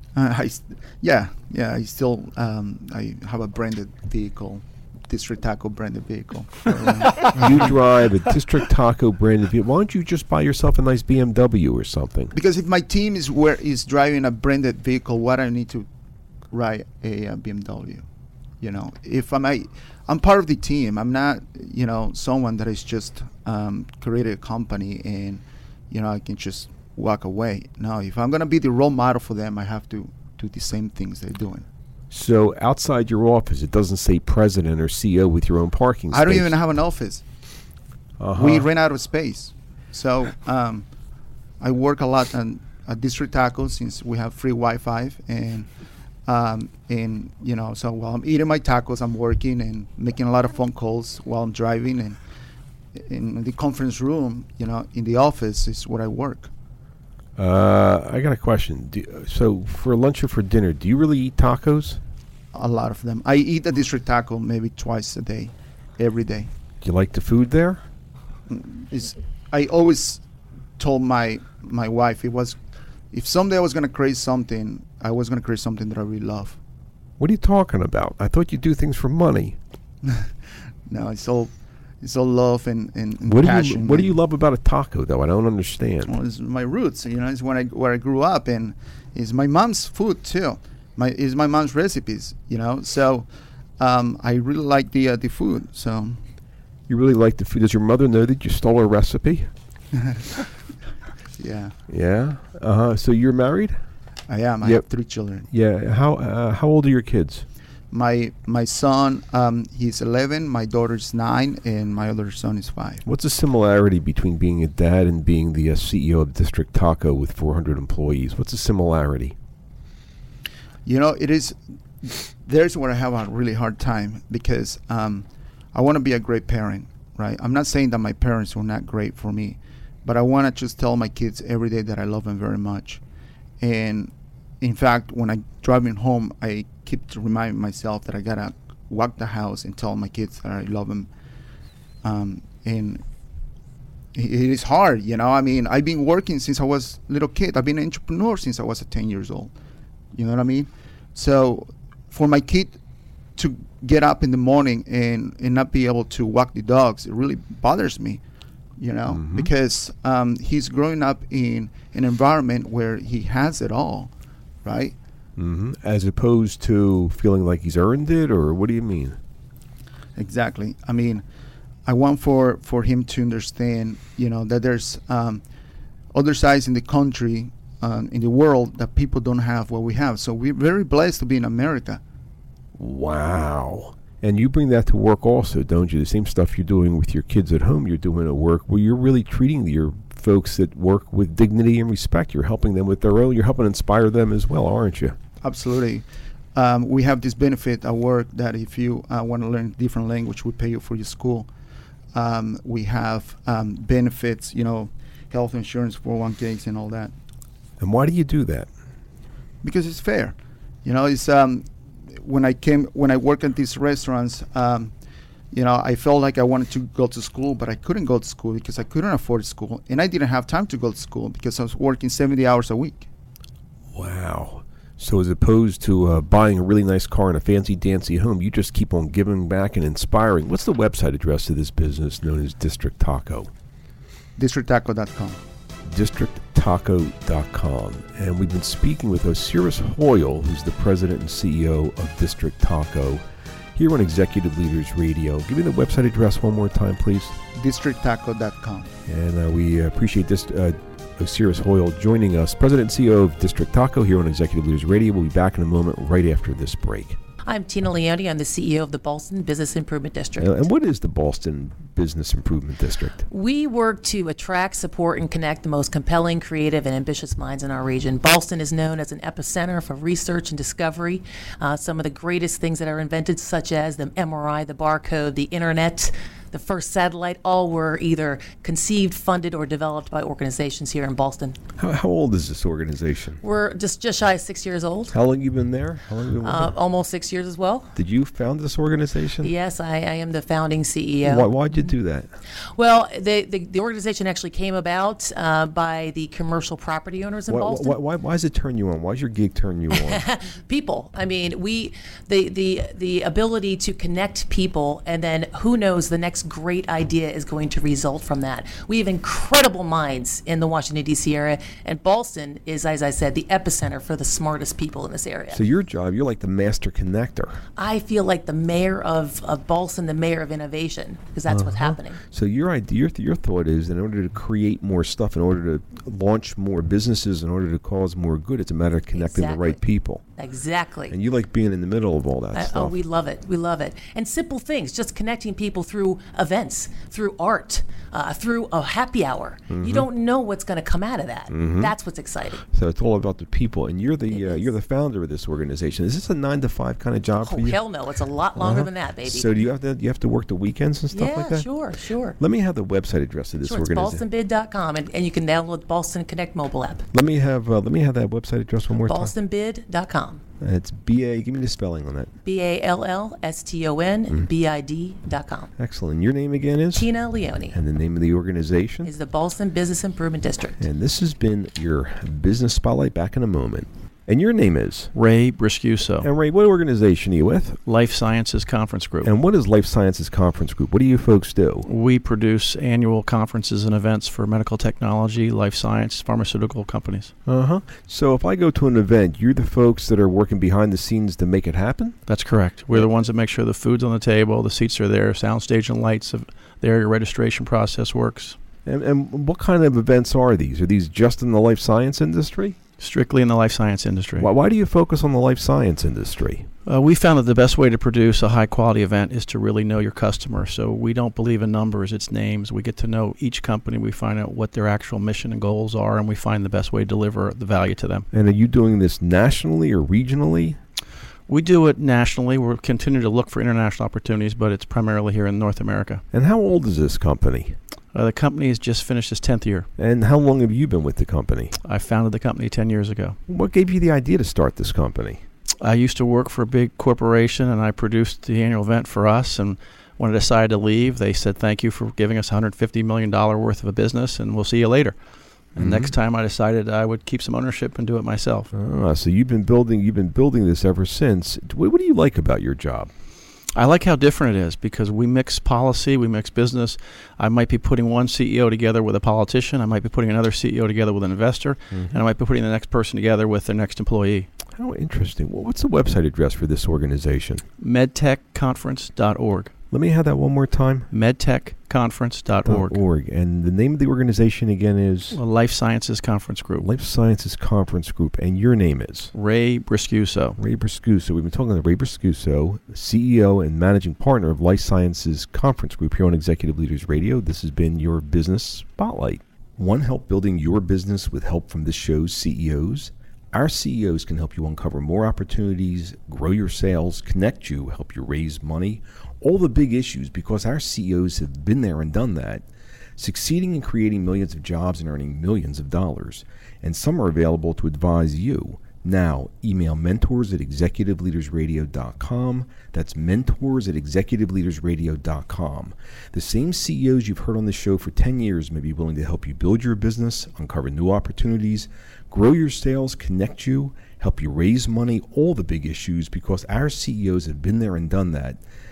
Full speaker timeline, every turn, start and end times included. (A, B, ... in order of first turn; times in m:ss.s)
0:00.1-0:07.7 A
0:07.2-0:12.3 B
0:12.3-0:15.9 A
0:16.5-0:18.0 A
0:18.6-0:31.6 A
0:32.1-0:36.5 B
0:36.1-0:37.2 A
0:38.2-0:38.7 B
0:38.3-0:40.9 A
0:41.6-0:45.7 A
0:46.2-0:52.2 A
0:53.0-0:56.5 A
0:57.4-1:02.0 B
1:02.5-1:06.5 A
1:06.8-1:07.8 B
1:08.5-1:10.2 A
1:10.8-1:12.6 A
1:13.1-1:16.6 A
1:17.2-1:19.6 B
1:20.0-1:20.3 A
1:20.9-1:24.1 A
1:23.2-1:26.1 B
1:26.0-1:36.2 A
1:36.9-1:39.5 B
1:39.9-1:40.2 A
1:41.4-1:41.7 A
1:41.9-1:43.8 B
1:44.3-1:45.5 A
1:45.5-1:47.4 B
1:47.9-1:53.0 A
1:53.0-1:59.4 B
2:00.8-2:13.0 A
2:13.6-2:21.1 A
2:22.0-2:23.0 A
2:24.1-2:29.5 A
2:30.1-2:32.8 A
2:33.4-2:38.2 A
2:38.8-2:44.1 A
2:39.1-2:39.5 B
2:44.6-2:45.0 A
2:45.4-2:49.2 B
2:50.2-2:51.2 A
2:51.8-2:55.4 A
2:56.1-3:02.0 A
3:02.8-3:15.2 B
3:15.4-3:21.5 A
3:22.1-3:27.1 A
3:27.8-3:28.7 B
3:29.6-3:34.9 A
3:35.5-3:43.1 A
3:43.9-3:53.5 B
3:54.4-3:55.4 A
3:55.8-4:03.2 B
4:03.7-4:07.4 B
4:07.5-4:08.9 A
4:09.0-4:17.2 B
4:17.4-4:20.5 C
4:20.4-4:23.2 B
4:23.3-4:41.6 C
4:41.8-4:43.4 B
4:43.4-4:45.1 C
4:45.1-4:46.7 B
4:46.4-4:47.9 C
4:47.9-4:49.5 B
4:49.4-4:51.5 C
4:51.2-4:52.3 B
4:52.8-4:58.0 C
4:57.5-5:00.2 B
4:59.9-5:15.6 C
5:15.5-5:17.6 B
5:17.8-5:22.2 C
5:21.5-5:30.2 B
5:29.1-5:29.8 C
5:30.4-5:31.1 C
5:31.1-5:33.0 B
5:32.5-5:42.6 C
5:39.7-5:40.1 B
5:41.5-5:41.9 B
5:42.6-5:47.8 B
5:44.3-5:44.6 C
5:47.4-5:49.5 C
5:48.6-5:51.7 B
5:51.1-5:52.4 C
5:52.4-5:54.2 B
5:53.6-5:57.0 C
5:57.1-5:59.3 B
5:59.0-6:00.4 C
6:00.6-6:02.3 B
6:02.4-6:05.7 C
6:05.8-6:07.1 B
6:06.9-6:07.8 C
6:07.7-6:09.1 B
6:09.0-6:10.8 C
6:10.8-6:15.1 B
6:15.1-6:16.3 D
6:16.2-6:17.8 B
6:17.8-6:19.3 D
6:19.2-6:21.9 B
6:21.8-6:27.3 D
6:27.4-6:32.2 B
6:32.3-6:38.6 D
6:38.8-6:42.8 B
6:43.0-6:44.5 D
6:44.4-6:46.7 B
6:46.8-6:58.3 D
6:58.3-7:00.8 B
7:01.5-7:06.2 D
7:06.3-7:07.8 B
7:08.1-7:09.9 D
7:10.0-7:11.7 B
7:11.8-7:13.4 D
7:13.5-7:15.4 B
7:15.8-7:25.2 D
7:25.7-7:28.7 D
7:25.8-7:26.1 B
7:28.7-7:33.1 B
7:33.7-7:44.5 D
7:41.9-7:42.2 B
7:44.7-7:47.6 B
7:47.8-7:49.7 D
7:49.9-7:51.1 B
7:51.1-7:53.0 D
7:52.6-7:55.4 B
7:55.3-7:56.9 D
7:56.8-7:59.3 B
7:59.3-8:00.6 D
8:00.6-8:22.6 B
8:23.2-8:48.6 B